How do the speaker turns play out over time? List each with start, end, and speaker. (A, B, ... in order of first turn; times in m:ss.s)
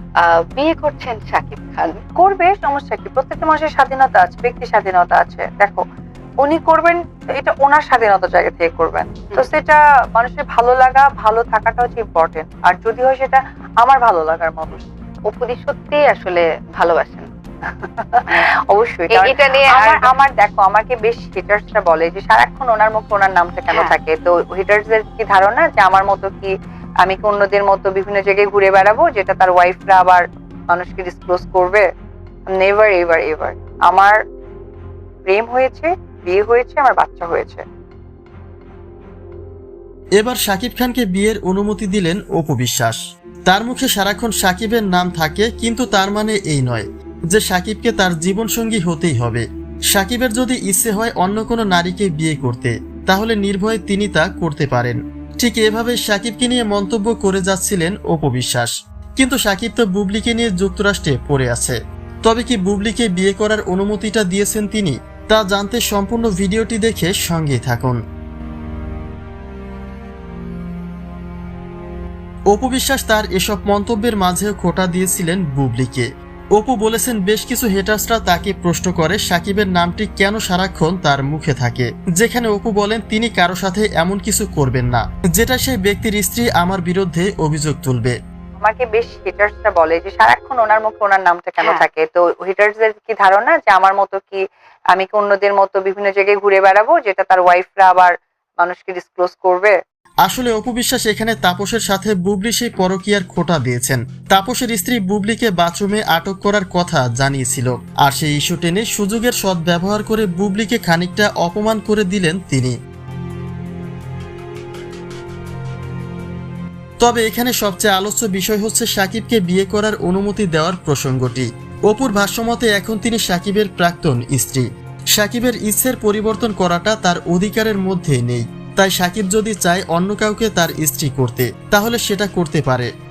0:00.2-0:02.0 A
0:02.2-0:05.8 B
0:06.4-0:14.8 B
0:15.3-0:17.3 A
0:17.7-0:26.5 B
0:19.1-0:20.1 A
0:27.0-0:31.8 B
0:32.5-0:34.2 B
0:35.3-0:37.6 B
0:40.2-1:08.0 C
1:12.5-1:28.2 C
1:28.6-1:34.4 B
1:34.9-1:39.8 B
1:40.2-1:52.7 C
1:57.0-2:12.9 C